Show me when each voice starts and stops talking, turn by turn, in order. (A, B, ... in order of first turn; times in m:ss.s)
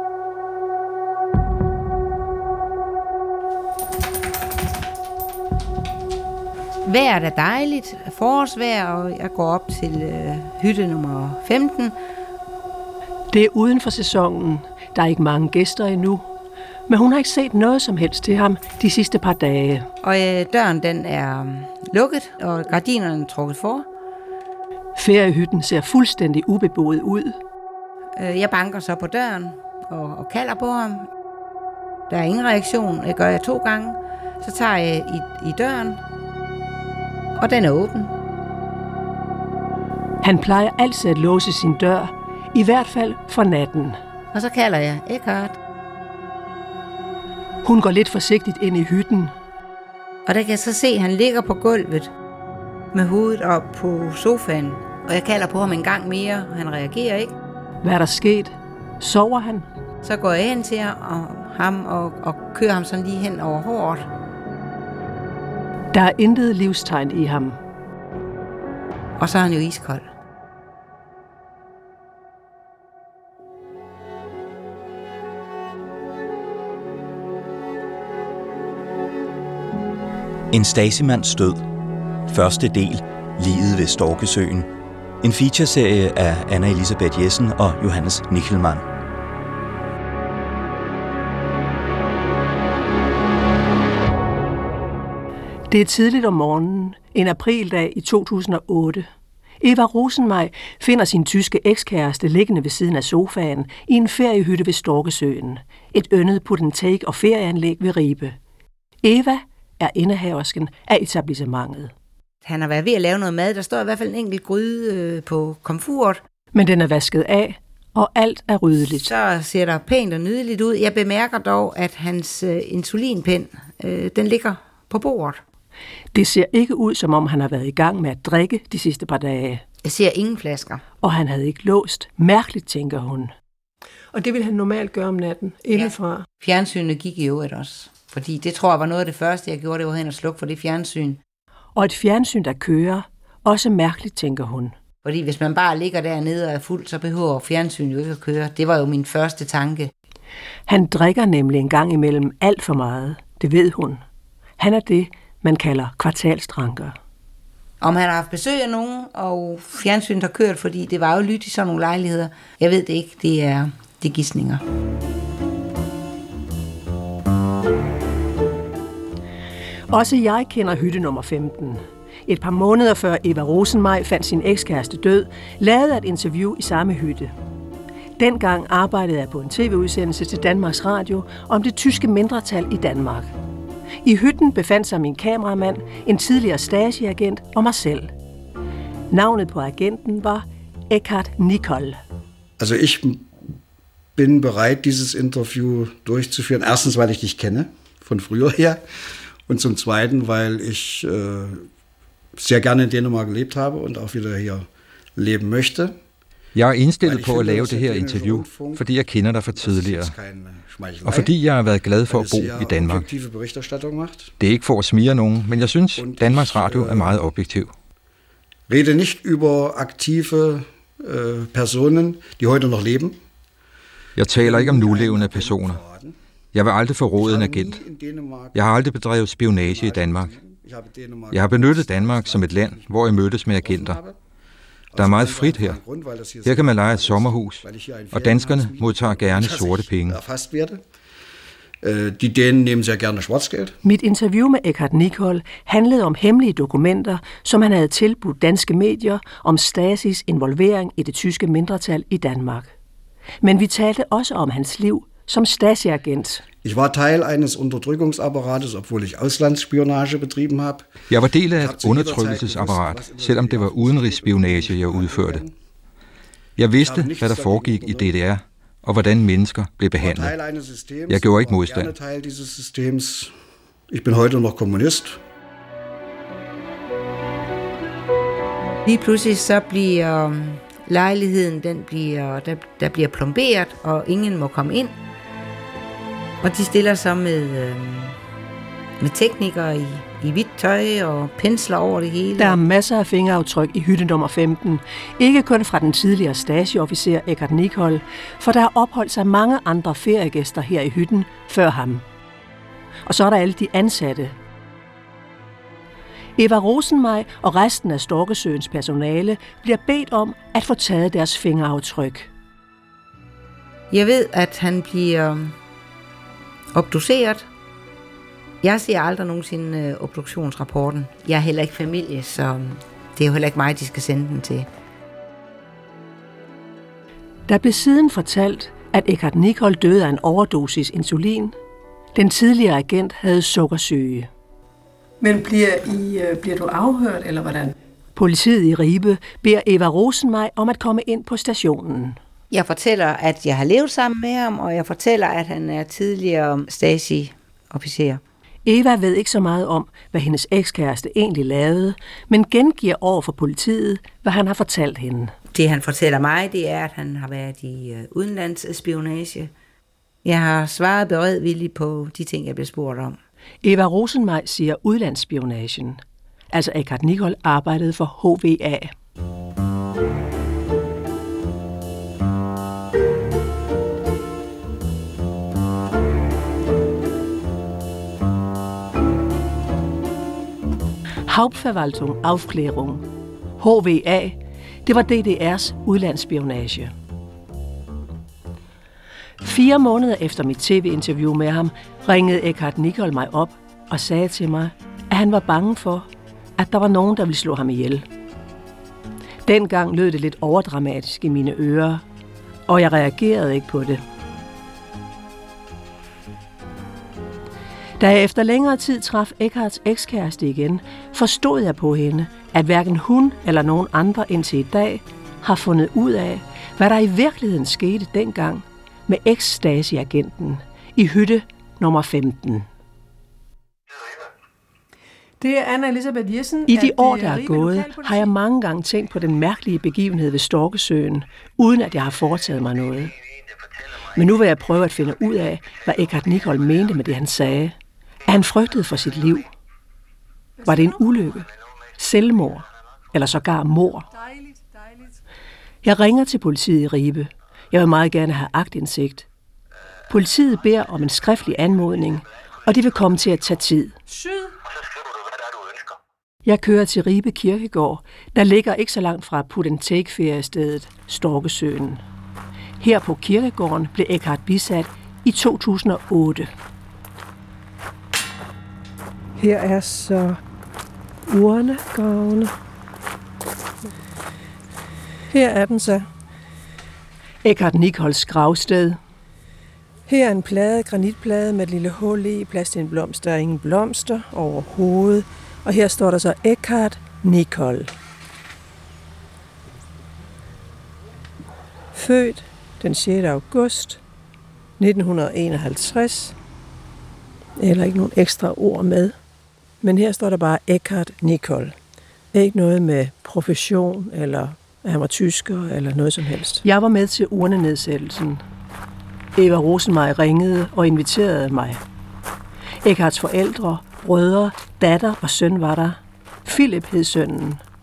0:06.8-0:11.9 A
0:13.3-0:16.3 B
0:16.9-0:19.8 B
0:20.0-0:23.8 A
0:25.0-0:27.4 B
0:28.2-0:31.1 A
0:32.1-0:36.0 A
0:37.4-0:38.1 A
0:40.2-0:44.0 B
0:44.3-0:45.6 A
0:47.6-0:49.3 B
0:50.2-0:52.1 A
0:52.9-0:57.3 A
0:57.8-0:59.7 B
1:00.0-1:04.1 A
1:05.9-1:07.6 B
1:09.2-1:10.0 A
1:20.5-1:21.6 C
1:22.3-1:24.7 C
1:25.2-1:28.8 C
1:35.7-1:39.1 B
1:39.6-1:48.4 B
1:49.0-1:51.9 B
1:52.4-1:56.2 A
1:56.5-1:59.1 B
1:59.0-2:05.4 A
2:06.1-2:09.6 B
2:09.8-2:10.8 A
2:11.0-2:13.3 B
2:14.1-2:16.2 D
2:15.7-2:21.2 A
2:21.8-2:24.7 B
2:25.0-2:29.9 A
2:30.7-2:34.0 B
2:34.6-2:37.0 B
2:37.8-2:44.6 A
2:49.9-2:57.3 B
2:58.2-3:03.3 B
3:04.0-3:08.1 B
3:09.1-3:12.0 B
3:12.6-3:13.3 E
3:14.2-3:18.8 E
3:19.5-3:21.7 E
3:22.4-3:24.6 E
3:25.2-3:25.9 E
3:26.5-3:30.1 F
3:27.0-3:28.9 E
3:29.5-3:31.3 E
3:31.0-3:33.1 F
3:32.0-3:34.3 E
3:34.4-3:37.7 F
3:36.0-3:37.2 E
3:38.7-3:43.2 E
3:44.2-3:45.8 F
3:44.3-3:46.2 E
3:46.5-3:47.8 F
3:47.2-3:48.9 E
3:48.5-3:50.3 F
3:49.5-3:54.2 E
3:51.3-3:54.0 F
3:54.9-4:00.8 E
3:55.0-3:55.8 F
3:56.4-4:00.2 F
4:01.8-4:03.8 E
4:03.8-4:12.7 B
4:13.4-4:16.4 B
4:16.6-4:25.5 E
4:21.1-4:25.4 F
4:26.6-4:30.3 F
4:26.7-4:28.1 E
4:29.9-4:33.3 E
4:31.1-4:31.9 F
4:33.9-4:35.2 E
4:38.8-4:44.9 A
4:46.4-4:48.2 A
4:49.0-4:52.6 A
4:52.4-5:02.0 B
5:03.0-5:04.3 B
5:06.4-5:12.3 B
5:13.9-5:15.5 A
5:16.7-5:17.4 A
5:18.6-5:24.7 A
5:27.5-5:31.5 B
5:32.1-5:34.3 B
5:35.2-5:37.7 D
5:38.2-5:42.2 B
5:42.5-5:48.2 A
5:48.6-5:55.3 B
5:55.5-5:59.5 A
6:00.2-6:03.2 A
6:03.6-6:06.0 B
6:06.5-6:08.9 B
6:21.2-6:23.0 B
6:23.6-6:26.9 B
6:29.4-6:38.0 B
6:39.4-6:42.0 B
6:42.7-6:44.0 B
6:48.0-7:02.6 B
7:05.4-7:08.3 D
7:06.7-7:13.1 B
7:14.1-7:19.5 B
7:20.6-7:21.0 D
7:20.6-7:21.5 B
7:22.0-7:24.1 B
7:25.8-7:29.3 B
7:30.1-7:34.0 B
7:34.1-7:34.5 D
7:36.4-7:42.0 B
7:42.8-7:46.5 B
7:49.4-7:50.4 D
7:51.3-7:52.5 D
7:55.3-7:56.1 D
7:57.4-7:59.0 B
8:00.1-8:07.9 D
8:11.9-8:14.0 D
8:14.8-8:16.3 D
8:17.6-8:19.1 D
8:19.8-8:21.7 D
8:22.3-8:26.6 D
8:26.6-8:28.4 B
8:29.4-8:31.8 B
8:32.8-8:37.6 B